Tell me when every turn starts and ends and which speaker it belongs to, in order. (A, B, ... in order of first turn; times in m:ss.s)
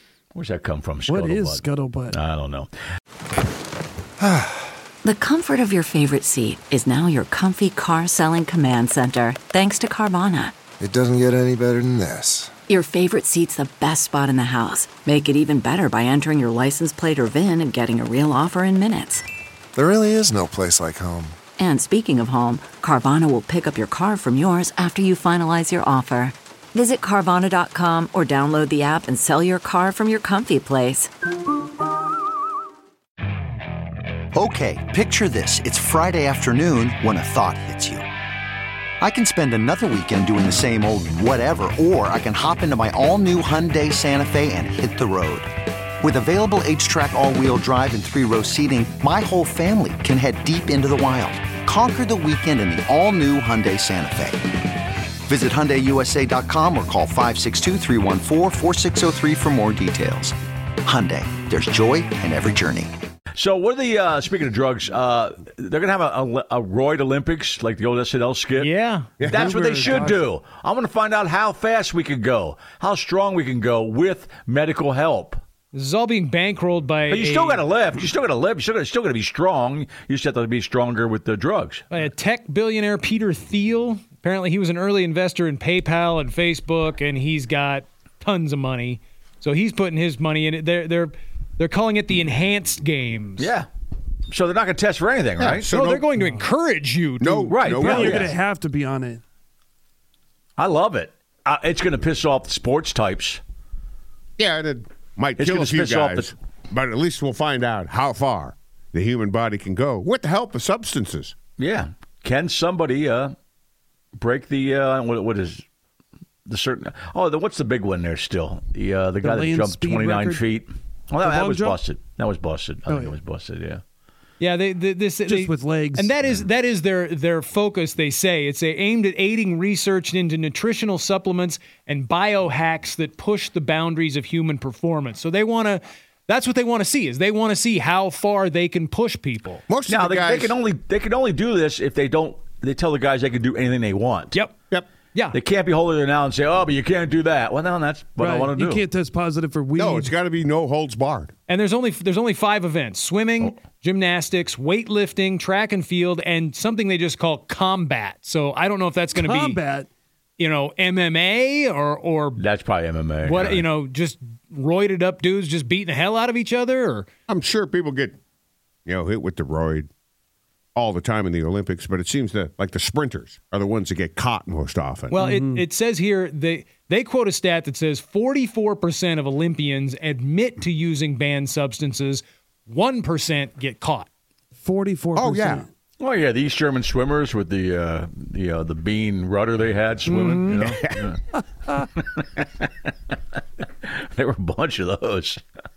0:00.3-0:02.7 A
0:01.1-0:02.2 B
0:05.0-0:10.5 C
0:10.8-0:12.5 D
0:12.7-0:19.2 C
0:19.8-0:21.4 D
0:21.6-0:31.1 C
0:34.3-0:38.0 E
0:39.0-0:54.4 E
0:55.3-1:02.9 E
1:03.3-1:15.4 A
1:08.6-1:09.1 F
1:09.2-1:10.2 G
1:09.2-1:10.2 B
1:15.7-1:17.6 F
1:17.1-1:21.9 A
1:21.9-1:33.5 F
1:33.4-1:33.7 A
1:34.3-1:35.7 A
1:35.4-1:36.1 G
1:35.7-1:38.2 F
1:37.2-1:38.3 G
1:37.5-1:38.3 A
1:37.7-1:39.2 B
1:40.6-1:43.4 A
1:44.4-1:51.3 G
1:45.4-1:46.3 A
1:51.6-1:53.3 A
1:54.2-1:55.6 A
1:56.4-2:03.8 A
1:59.2-2:00.4 B
2:01.2-2:01.8 B
2:02.9-2:03.2 B
2:04.4-2:19.6 F
2:05.2-2:06.1 B
2:19.7-2:20.5 G
2:19.9-2:24.4 A
2:25.3-2:28.8 A
2:28.2-2:30.1 B
2:29.8-2:31.3 G
2:31.5-2:39.6 F
2:39.1-2:39.9 B
2:40.4-2:42.4 F
2:42.4-2:43.6 A
2:43.2-2:47.1 F
2:47.3-2:48.2 G
2:48.8-2:49.9 G
2:50.7-2:55.1 G
2:55.1-3:04.1 F
2:55.2-2:55.6 B
3:04.6-3:05.7 B
3:05.2-3:05.6 G
3:06.0-3:11.4 A
3:10.1-3:10.6 F
3:12.0-3:12.7 A
3:13.6-3:15.4 A